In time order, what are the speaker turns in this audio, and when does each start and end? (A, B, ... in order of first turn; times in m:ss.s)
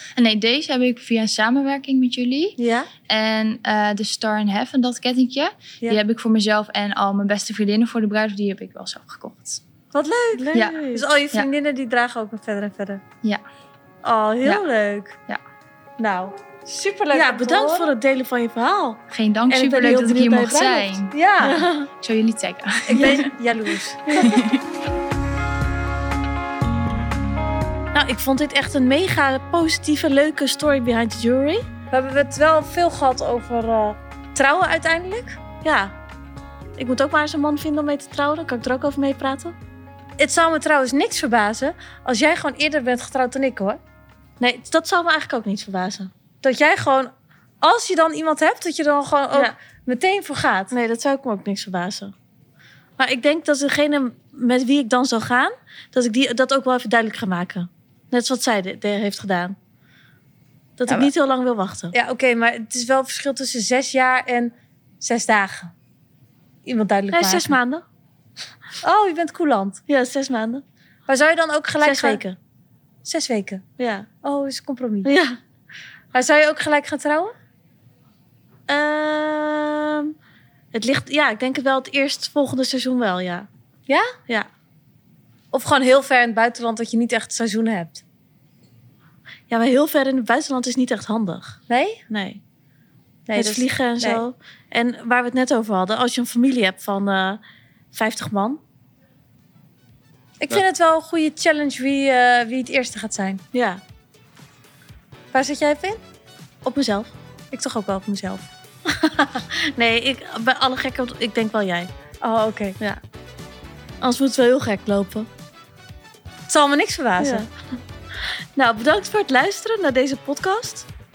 0:00.2-0:09.6 A
0:02.6-0:02.9 B
0:09.9-0:13.0 B
0:10.3-0:11.0 C
0:10.5-0:11.5 A
0:14.1-0:15.1 B
0:16.0-0:17.9 B
0:17.1-0:21.9 C
0:19.1-0:21.2 A
0:21.1-0:21.6 B
0:21.9-0:23.3 A
0:22.9-0:24.4 B
0:24.1-0:24.4 C
0:24.2-0:24.6 A
0:27.9-0:31.6 C
0:31.9-0:35.4 B
0:35.6-0:35.9 C
0:36.8-0:39.5 C
0:40.2-0:43.8 B
0:44.4-0:46.1 C
0:46.4-0:50.7 B
0:50.7-0:52.1 C
0:53.0-0:59.6 C
1:00.8-1:01.9 C
1:01.9-1:05.7 B
1:06.6-1:07.6 B
1:07.1-1:07.8 C
1:08.8-1:09.8 B
1:09.9-1:10.6 C
1:11.1-1:12.2 B
1:11.8-1:12.4 C
1:13.0-1:13.6 B
1:13.8-1:14.1 C
1:14.2-1:15.1 B
1:15.0-1:15.4 C
1:16.1-1:17.3 B
1:18.7-1:20.1 C
1:20.7-1:23.5 C
1:23.9-1:24.1 B
1:25.5-1:28.0 B
1:29.5-1:32.4 C
1:31.7-1:32.0 B
1:33.3-1:34.2 B
1:33.3-1:37.4 C
1:37.9-1:38.6 C
1:40.4-1:43.4 B
1:43.5-1:43.8 C
1:45.3-1:46.0 B
1:46.6-1:47.1 C
1:47.5-1:48.5 B
1:48.9-1:51.9 C
1:52.2-1:52.8 B
1:54.0-1:55.3 C
1:56.5-1:57.4 B
1:57.2-1:57.5 C
1:58.6-2:00.9 C